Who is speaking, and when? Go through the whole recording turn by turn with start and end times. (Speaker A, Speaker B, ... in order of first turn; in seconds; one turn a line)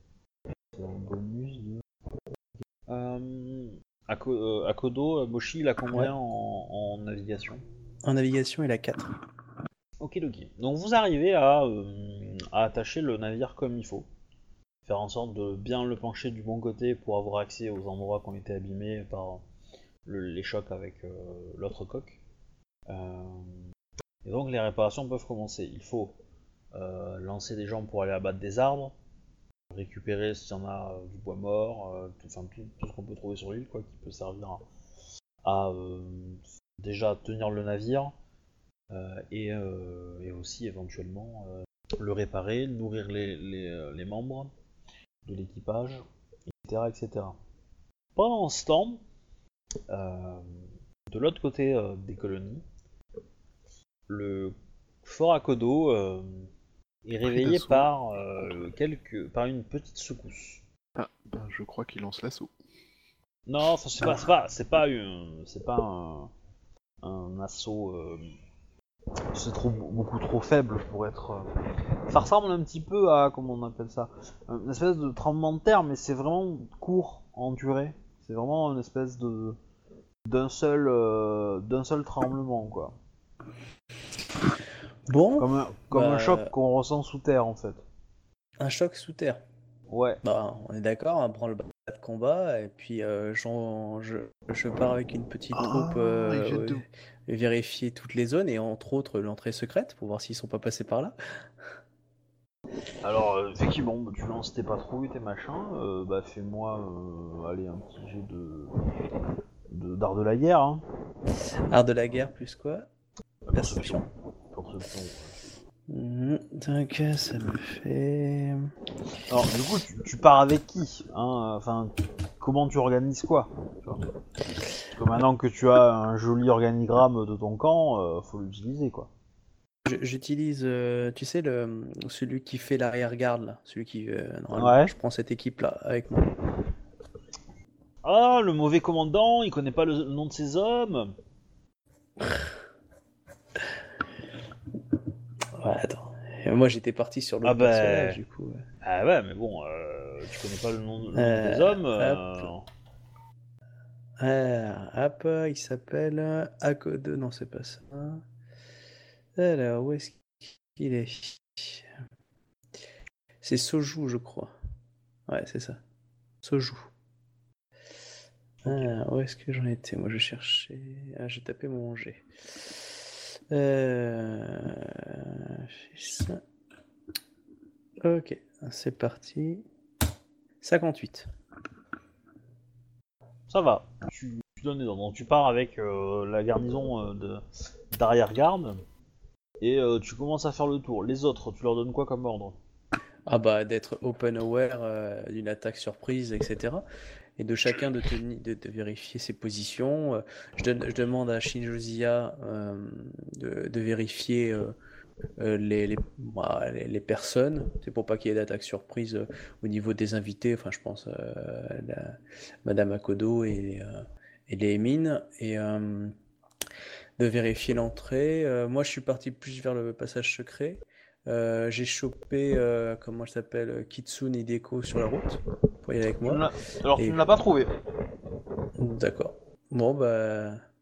Speaker A: 0.7-1.8
Speaker A: 2.9-7.6
Speaker B: 8.0-9.1
Speaker A: 10.0-14.1
Speaker A: 14.8-19.4
Speaker A: 20.1-22.2
Speaker A: 22.9-23.6
Speaker A: 24.2-26.1
Speaker A: 26.7-28.9
Speaker A: 29.7-34.6
Speaker A: 35.4-38.1
Speaker A: 38.9-44.5
Speaker A: 45.2-47.4
Speaker A: 48.1-49.0
Speaker A: 49.9-52.6
Speaker A: 54.1-56.5
Speaker A: 57.0-60.6
Speaker C: 57.3-58.6
Speaker C: 61.0-62.5
Speaker A: 63.5-66.3
Speaker A: 67.0-68.3
Speaker A: 69.3-71.5
Speaker A: 72.1-79.6
Speaker A: 80.2-82.9
Speaker B: 85.1-86.5
Speaker A: 85.4-87.8
Speaker B: 88.6-89.4
Speaker A: 89.9-90.2
Speaker B: 90.2-101.1
Speaker C: 95.5-96.8
Speaker A: 103.0-108.8
Speaker A: 109.7-110.8
Speaker B: 111.7-112.9
Speaker A: 113.5-115.5
Speaker B: 113.5-114.0
Speaker B: 115.9-118.7
Speaker A: 119.3-124.1
Speaker A: 124.9-129.1
Speaker B: 129.8-136.3
Speaker A: 134.6-134.9
Speaker A: 138.0-141.1
Speaker B: 145.6-148.6
Speaker A: 147.4-148.2
Speaker A: 148.8-152.7
Speaker B: 151.1-152.4
Speaker B: 154.2-158.2
Speaker B: 159.3-161.9
Speaker B: 163.4-164.5
Speaker B: 165.3-165.8
Speaker B: 166.4-166.9
Speaker A: 168.6-168.9
Speaker B: 168.7-173.0
Speaker B: 173.5-176.4
Speaker B: 178.0-179.6
Speaker B: 180.6-181.3
Speaker A: 183.5-188.8
Speaker A: 189.6-192.6
Speaker B: 193.3-196.8
Speaker B: 197.4-204.7
Speaker B: 205.4-216.1
Speaker B: 217.2-227.2
Speaker A: 226.2-227.7
Speaker B: 228.8-230.6